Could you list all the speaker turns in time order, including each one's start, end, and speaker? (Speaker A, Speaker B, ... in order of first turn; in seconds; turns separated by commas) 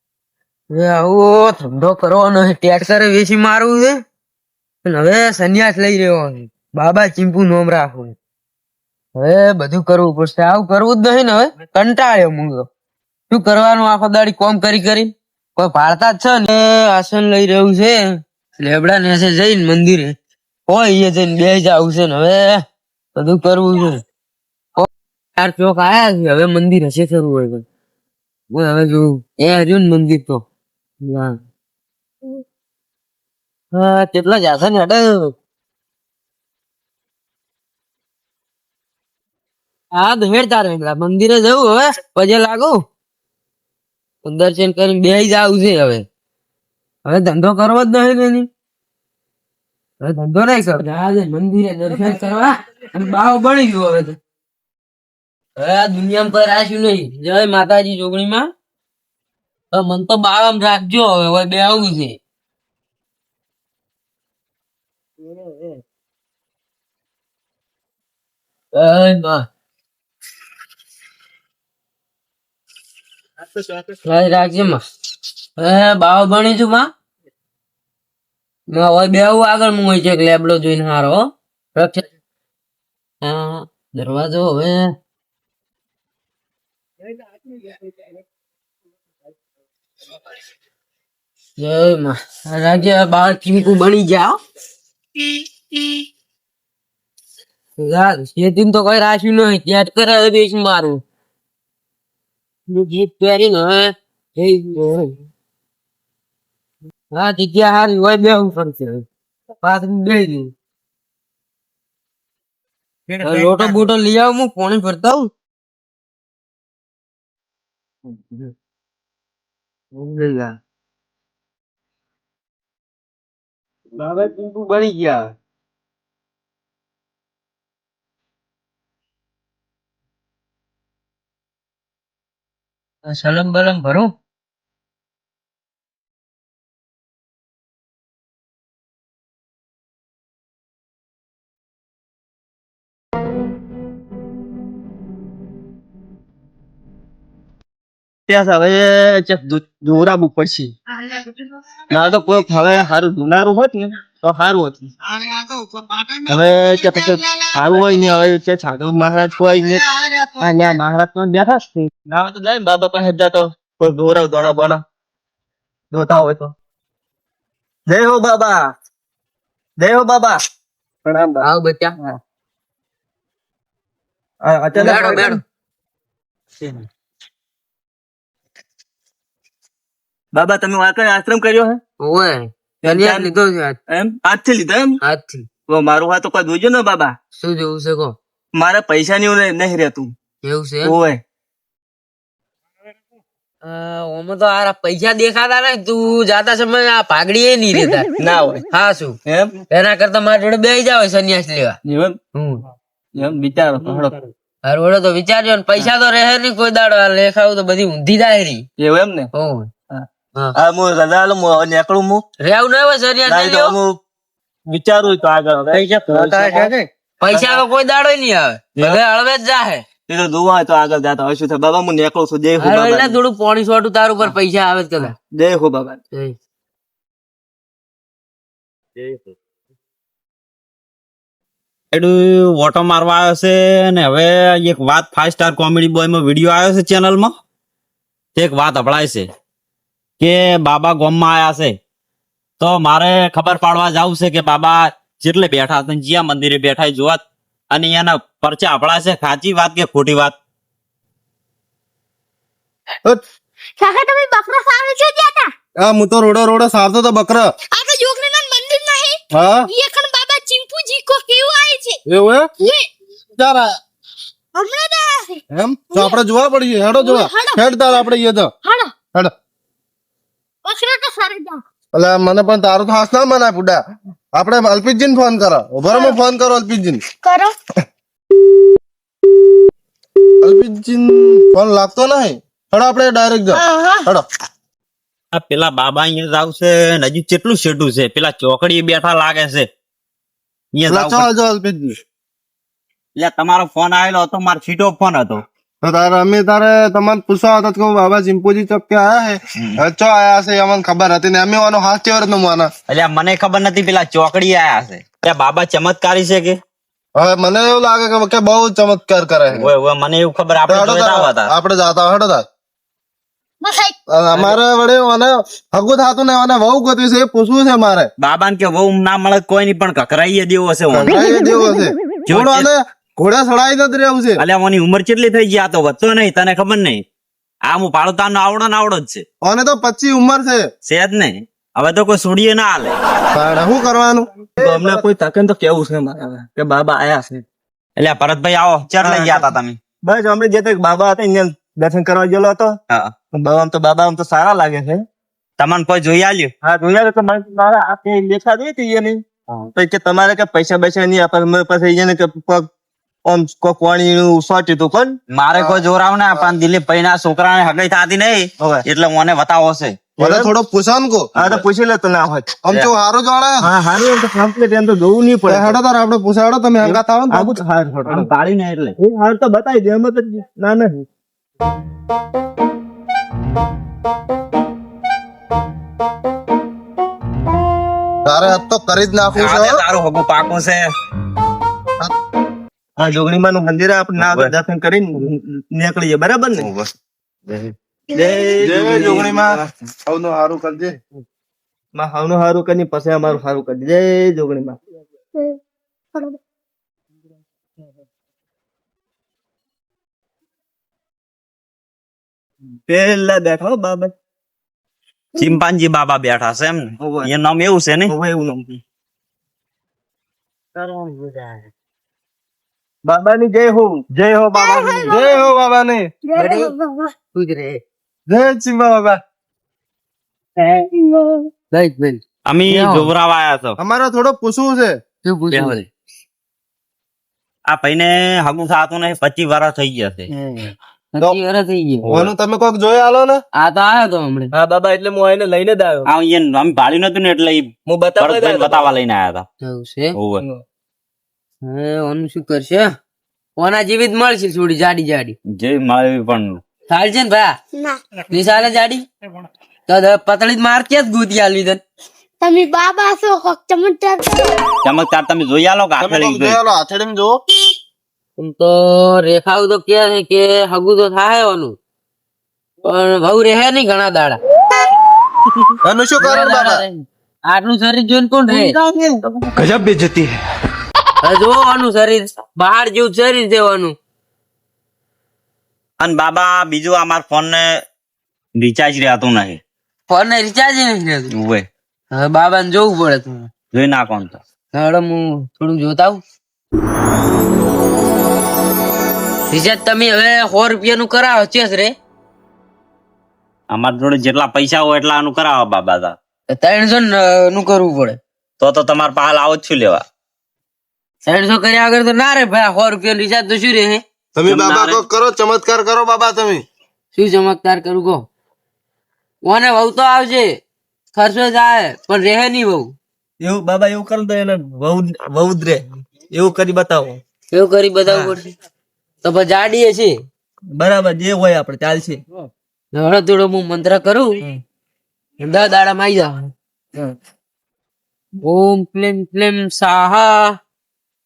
Speaker A: 0.7-4.0, Speaker A: 4.8-8.2, Speaker A: 9.2-12.7, Speaker A: 13.3-20.1, Speaker A: 20.7-22.6, Speaker A: 23.1-24.0, Speaker A: 24.8-27.6, Speaker A: 28.5-30.4, Speaker A: 31.0-31.4, Speaker A: 33.7-35.3, Speaker A: 39.9-42.8, Speaker A: 44.2-46.0, Speaker A: 47.0-48.5, Speaker A: 50.0-54.2, Speaker A: 55.6-58.5, Speaker A: 59.7-62.2, Speaker A: 68.7-69.5, Speaker B: 73.5-73.9, Speaker A: 74.0-74.8, Speaker A: 75.6-76.9, Speaker A: 78.7-82.0, Speaker A: 83.2-84.9, Speaker A: 91.6-94.4, Speaker A: 97.8-101.0, Speaker A: 102.7-105.2, Speaker A: 107.1-109.0, Speaker A: 109.6-110.5, Speaker B: 113.1-113.8, Speaker A: 113.2-115.3, Speaker A: 120.0-120.5, Speaker B: 124.0-125.3, Speaker A: 133.1-134.1, Speaker B: 148.3-151.2, Speaker B: 151.9-154.9, Speaker B: 156.0-164.8, Speaker B: 165.9-166.5, Speaker B: 167.9-168.7, Speaker B: 169.8-170.4, Speaker B: 171.1-171.4, Speaker A: 171.4-172.0, Speaker B: 174.4-175.4, Speaker A: 174.8-175.4, Speaker B: 180.3-181.8, Speaker A: 182.0-183.8, Speaker B: 182.8-183.4, Speaker B: 183.9-185.0, Speaker A: 185.0-185.5, Speaker B: 185.7-187.2, Speaker A: 187.4-188.2, Speaker B: 188.5-190.1, Speaker A: 190.4-190.9, Speaker B: 190.8-191.2, Speaker A: 193.6-198.1, Speaker B: 198.2-198.6, Speaker A: 198.7-199.2, Speaker B: 199.3-199.5, Speaker A: 199.7-201.8, Speaker B: 201.8-202.2, Speaker A: 202.3-202.6, Speaker B: 203.2-204.2, Speaker A: 204.7-208.7, Speaker B: 208.8-209.3, Speaker A: 209.3-209.7, Speaker B: 209.9-212.2, Speaker A: 212.4-213.8, Speaker B: 213.3-214.0, Speaker B: 214.7-217.6, Speaker A: 216.1-219.8, Speaker B: 220.1-223.2, Speaker A: 222.6-225.2, Speaker B: 225.3-226.0, Speaker C: 231.9-237.3, Speaker C: 238.4-239.3, Speaker C: 240.2-241.8, Speaker C: 242.6-250.3, Speaker D: 253.8-255.5, Speaker E: 255.8-257.5, Speaker D: 257.7-262.0, Speaker E: 259.3-259.7, Speaker E: 262.1-262.5, Speaker D: 262.6-262.9, Speaker E: 263.4-263.8, Speaker D: 264.6-265.4, Speaker E: 265.5-268.5, Speaker D: 265.9-266.2, Speaker D: 267.0-268.1, Speaker D: 268.6-269.0, Speaker D: 270.6-271.6, Speaker E: 271.9-273.8, Speaker E: 274.4-277.0, Speaker D: 275.9-276.2, Speaker D: 277.2-277.5, Speaker E: 280.4-284.2, Speaker D: 283.5-284.1, Speaker C: 285.3-289.7, Speaker C: 290.7-291.3, Speaker E: 290.9-292.0, Speaker C: 293.2-295.4, Speaker E: 295.8-302.7, Speaker C: 302.9-306.6, Speaker E: 307.1-309.7, Speaker C: 309.5-311.5, Speaker E: 310.7-312.4, Speaker D: 313.6-314.0, Speaker E: 314.1-318.1, Speaker C: 318.2-321.2, Speaker E: 320.9-324.4, Speaker C: 322.3-322.7, Speaker C: 324.4-327.0, Speaker C: 327.7-329.2, Speaker E: 329.4-330.7, Speaker C: 330.9-333.0, Speaker E: 333.3-335.0, Speaker B: 334.6-337.4, Speaker C: 338.0-339.8, Speaker B: 339.0-339.5, Speaker B: 340.0-342.8, Speaker B: 343.3-345.1, Speaker C: 345.6-346.5, Speaker B: 346.6-349.2, Speaker B: 349.8-352.7, Speaker B: 353.2-355.2, Speaker C: 355.3-360.0, Speaker E: 360.2-361.4, Speaker B: 360.2-360.5, Speaker B: 361.4-362.6, Speaker E: 362.6-363.7, Speaker B: 363.6-365.8, Speaker E: 365.5-367.6, Speaker B: 366.8-368.3, Speaker C: 368.1-369.0, Speaker B: 369.0-371.1, Speaker E: 378.3-379.8, Speaker C: 379.3-380.9, Speaker B: 383.0-386.7, Speaker C: 384.2-384.5, Speaker C: 386.6-386.9, Speaker B: 388.1-389.6, Speaker E: 388.6-391.0, Speaker B: 391.9-394.8, Speaker B: 402.9-404.1, Speaker C: 405.4-408.1, Speaker B: 407.0-407.3, Speaker B: 408.1-408.8, Speaker A: 411.1-411.4, Speaker B: 413.1-415.0, Speaker D: 414.5-415.4, Speaker E: 415.1-416.1, Speaker D: 416.3-417.1, Speaker A: 416.4-416.7, Speaker A: 417.3-417.8, Speaker E: 418.3-419.2, Speaker A: 421.7-423.1, Speaker C: 422.5-423.8, Speaker E: 423.8-425.0, Speaker A: 425.2-425.9, Speaker C: 427.7-430.3, Speaker B: 430.3-430.7, Speaker A: 431.1-432.1, Speaker B: 432.1-432.3, Speaker E: 432.1-433.4, Speaker A: 433.6-434.5, Speaker B: 434.5-436.1, Speaker C: 436.1-437.7, Speaker B: 437.9-438.9, Speaker C: 438.2-439.5, Speaker A: 439.6-440.2, Speaker C: 440.1-440.4, Speaker A: 441.6-442.9, Speaker A: 443.6-445.4, Speaker C: 445.5-446.6, Speaker A: 446.9-447.5, Speaker A: 448.3-449.1, Speaker A: 449.9-451.8, Speaker D: 452.4-454.5, Speaker C: 454.8-456.6, Speaker E: 456.0-457.4, Speaker A: 458.4-461.8, Speaker A: 462.9-464.4, Speaker E: 465.8-466.8, Speaker A: 466.2-468.8, Speaker B: 469.0-470.3, Speaker A: 471.2-474.0, Speaker C: 476.0-477.7, Speaker C: 478.6-479.6, Speaker A: 480.1-481.3, Speaker C: 481.4-481.7, Speaker A: 482.1-483.5, Speaker C: 483.7-484.4, Speaker A: 484.7-486.2, Speaker A: 489.5-491.9, Speaker C: 493.7-496.2, Speaker A: 496.5-498.2, Speaker C: 498.6-500.0, Speaker A: 501.3-504.0, Speaker E: 504.4-506.6, Speaker C: 504.5-505.0, Speaker A: 507.1-508.2, Speaker A: 509.4-510.6, Speaker A: 511.1-512.9, Speaker B: 513.4-517.2, Speaker A: 517.5-518.5, Speaker B: 518.1-518.3, Speaker A: 519.2-520.2, Speaker B: 520.7-522.2, Speaker A: 522.9-524.4, Speaker A: 525.4-526.5, Speaker A: 528.4-530.6